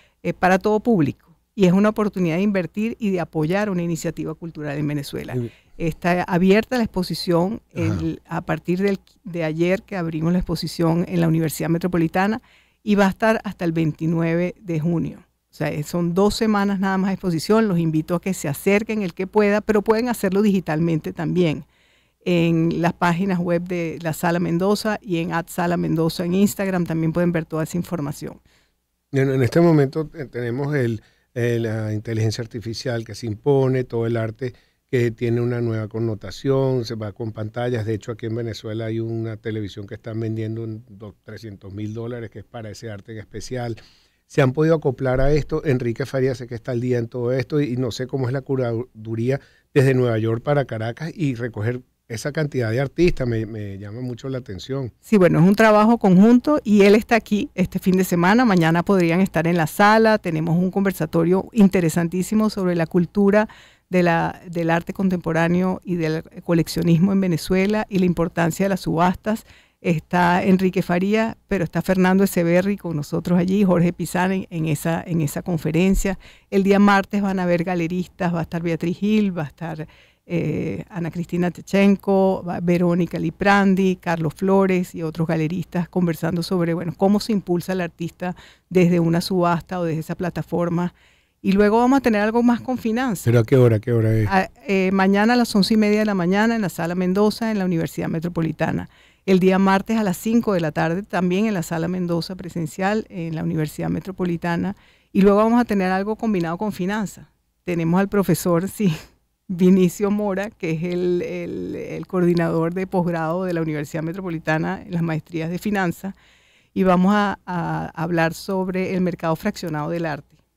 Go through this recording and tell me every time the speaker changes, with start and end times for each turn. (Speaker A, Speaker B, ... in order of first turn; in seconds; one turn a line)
Speaker A: 0.2-21.6
Speaker B: 7.8-8.0
Speaker A: 22.2-28.4
Speaker B: 29.1-43.8
Speaker B: 44.3-54.9
Speaker A: 55.1-93.3
Speaker B: 93.2-94.3
Speaker A: 94.3-109.0
Speaker A: 109.5-116.2
Speaker A: 116.8-120.3